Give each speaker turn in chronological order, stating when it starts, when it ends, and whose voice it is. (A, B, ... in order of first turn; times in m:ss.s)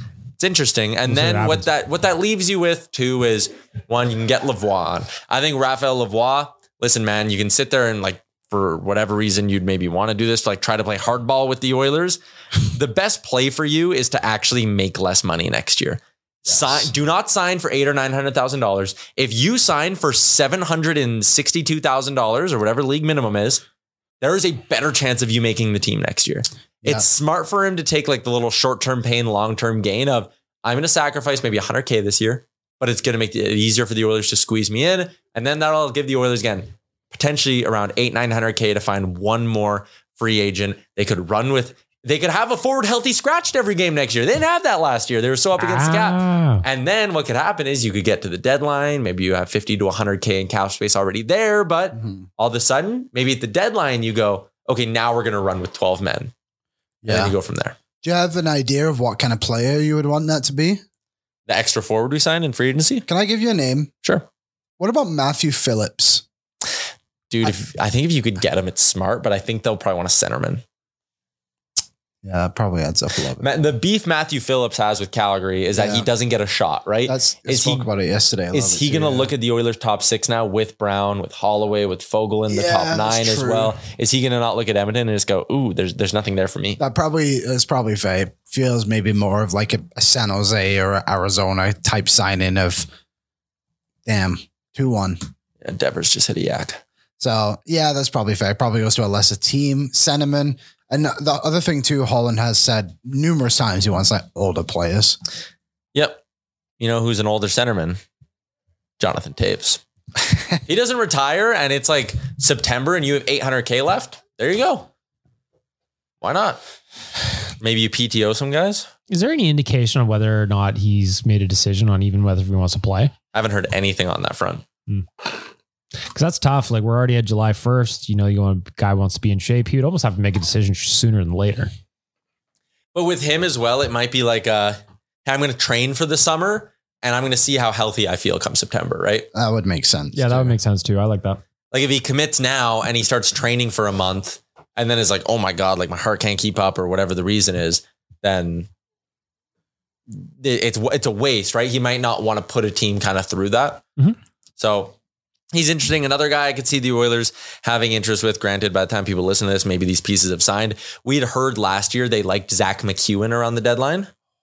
0:00.4-0:23.6 A
0:01.1-0:01.7 B
0:16.5-0:16.9 C
0:24.2-0:56.3 A
0:45.6-0:46.6 B
0:51.9-0:52.2 C
0:57.0-0:57.3 C
0:57.0-0:57.7 A
0:58.0-1:00.8 C
1:01.5-1:03.0 A
1:03.1-1:03.9 C
1:04.8-1:06.2 C
1:07.3-1:10.6 A
1:12.2-1:13.5 C
1:13.4-1:17.9 A
1:15.7-1:16.1 C
1:17.0-1:19.3 C
1:18.5-1:26.8 A
1:22.5-1:23.8 C
1:26.8-1:32.9 C
1:34.0-1:35.2 C
1:35.6-1:36.8 A
1:37.2-1:45.2 C
1:45.9-1:46.2 A
1:46.8-1:48.0 A
1:49.0-1:49.8 A
1:50.6-1:54.9 A
1:56.2-1:56.6 A
1:57.6-1:58.9 A
1:59.1-2:03.1 B
2:03.3-2:04.6 A
2:04.9-2:05.2 B
2:06.1-2:11.7 B
2:12.9-2:19.3 A
2:19.3-2:20.6 C
2:20.1-2:21.4 B
2:21.7-2:28.7 A
2:30.1-2:33.8 A
2:34.6-2:34.9 A
2:35.5-2:44.1 A